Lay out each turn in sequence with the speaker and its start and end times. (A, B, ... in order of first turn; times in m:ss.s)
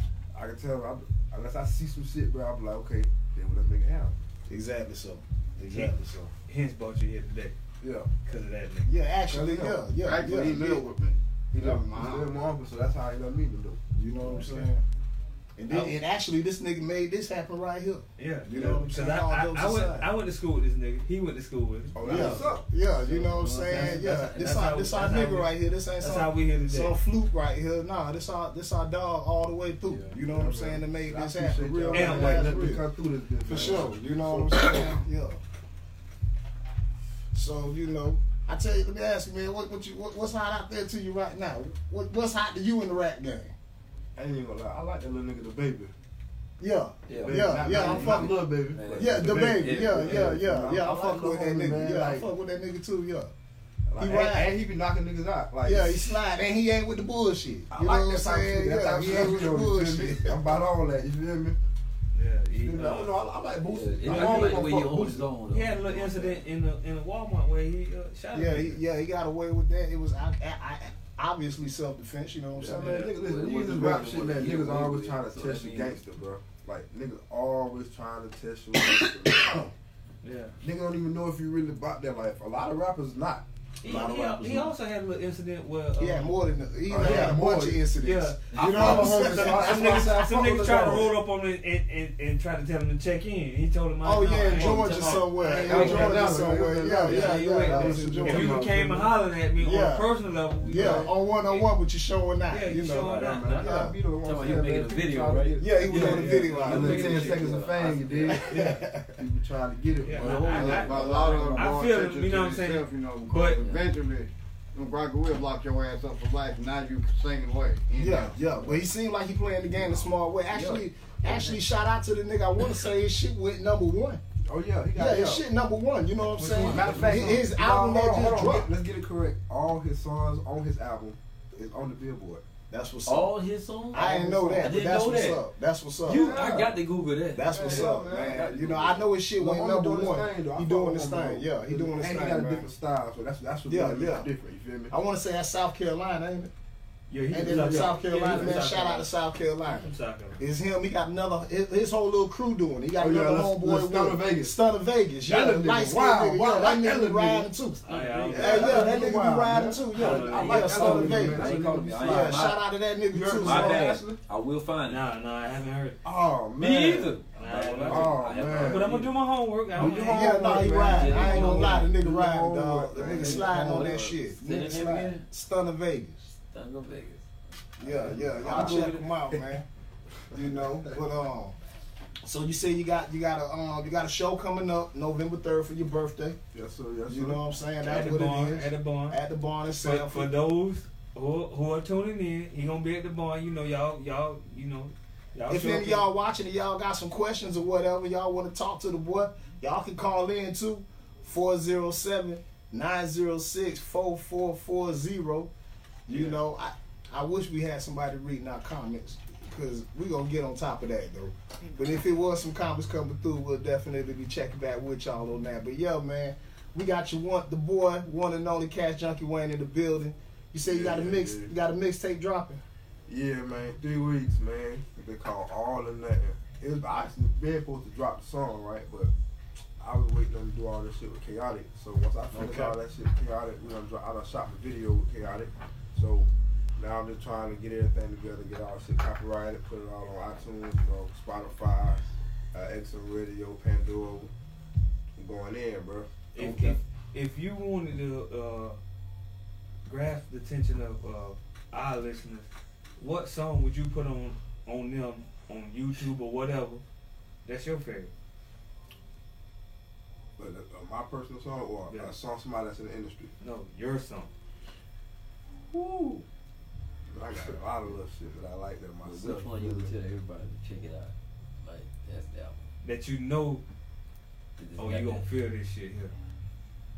0:00.3-0:04.2 A
0:04.5-0:06.3 B
0:05.6-0:05.9 C
0:06.5-0:07.6 C
0:07.8-0:08.1 A
0:08.2-0:08.9 C
0:08.8-0:10.7 B
0:09.3-0:10.9 A
0:10.0-0:12.4 D
0:11.5-0:14.7 A
0:14.0-0:14.8 B
0:15.6-0:20.1 B
0:18.2-0:22.4 C
0:22.0-0:22.7 A
0:22.0-0:32.8 B
0:23.0-0:24.1 E
0:23.7-0:27.0 C
0:29.9-0:30.1 E
0:30.2-0:35.0 A
0:31.9-0:32.6 C
0:33.4-0:35.4 B
0:37.3-0:43.6 B
0:44.2-0:45.9 A
0:46.6-0:53.3 B
0:47.1-0:50.4 E
0:47.1-0:52.3 A
0:53.9-0:56.2 A
0:54.0-0:54.5 B
0:55.6-1:00.6 B
0:57.7-1:01.6 A
1:02.1-1:03.2 C
1:02.5-1:05.3 A
1:03.7-1:06.4 E
1:04.0-1:04.7 C
1:05.5-1:08.8 C
1:08.3-1:13.1 B
1:12.6-1:19.7 A
1:12.7-1:16.0 E
1:19.3-1:19.7 B
1:20.2-1:20.5 C
1:20.6-1:23.5 A
1:23.8-1:26.4 C
1:23.8-1:24.8 B
1:26.0-1:31.1 B
1:26.9-1:27.8 A
1:27.0-1:27.4 C
1:28.0-1:36.3 C
1:28.5-1:31.2 A
1:34.0-1:39.0 B
1:34.6-1:39.0 A
1:35.7-1:36.1 E
1:36.8-1:41.6 C
1:39.6-1:40.1 B
1:40.6-1:44.0 B
1:40.8-1:41.1 A
1:42.5-1:43.7 C
1:43.0-1:51.3 A
1:43.3-1:48.4 E
1:45.6-1:47.4 B
1:45.9-1:47.7 C
1:48.3-1:49.2 B
1:50.0-1:53.6 C
1:50.1-1:51.7 E
1:50.4-1:58.8 D
1:53.6-1:53.9 E
1:58.0-2:04.2 B
2:00.5-2:00.9 A
2:04.4-2:05.4 A
2:04.9-2:08.7 B
2:06.4-2:07.3 E
2:06.5-2:06.9 C
2:06.6-2:12.4 A
2:12.7-2:13.3 B
2:13.1-2:15.4 E
2:13.9-2:16.6 B
2:16.1-2:19.0 E
2:16.1-2:16.8 A
2:17.3-2:22.7 B
2:17.5-2:18.6 A
2:19.4-2:24.9 A
2:23.7-2:24.3 B
2:24.9-2:26.5 B
2:27.1-2:28.4 C
2:27.3-2:37.8 B
2:27.4-2:28.9 A
2:28.0-2:29.0 E
2:29.7-2:30.4 C
2:33.0-2:34.6 A
2:35.3-2:37.5 A
2:37.9-2:39.1 C
2:37.9-2:38.8 E
2:38.3-2:42.5 A
2:38.3-2:44.0 B
2:40.0-2:40.8 C
2:40.0-2:42.7 E
2:43.1-2:44.2 A
2:43.3-2:45.0 E
2:44.9-2:46.0 C
2:46.0-2:49.0 A
2:46.6-2:49.1 E
2:47.4-2:50.5 C
2:49.7-2:54.1 A
2:49.9-2:56.3 B
2:50.7-2:51.9 E
2:53.0-2:55.3 E
2:56.4-2:57.3 E
2:57.8-2:59.6 B
2:57.8-2:59.4 A
2:58.1-2:59.1 E
3:00.3-3:01.0 A
3:00.3-3:01.6 B
3:02.2-3:06.4 B
3:06.5-3:07.4 A
3:07.1-3:10.3 B
3:07.8-3:09.2 C
3:09.8-3:16.1 C
3:15.5-3:25.5 B
3:26.1-3:42.6 B
3:40.6-3:41.5 A
3:43.1-3:49.1 A
3:49.8-4:02.0 A
3:52.3-3:52.8 B
4:02.5-4:04.3 A
4:05.2-4:06.1 A
4:06.3-4:08.8 C
4:06.4-4:06.7 B
4:09.8-4:16.8 C
4:17.4-4:18.1 C
4:20.4-4:23.3 A
4:21.9-4:22.2 C
4:23.4-4:24.3 C
4:25.7-4:26.2 A
4:27.1-4:29.9 A
4:29.0-4:32.7 E
4:32.8-4:33.6 C
4:34.6-4:35.2 E
4:34.8-4:36.1 C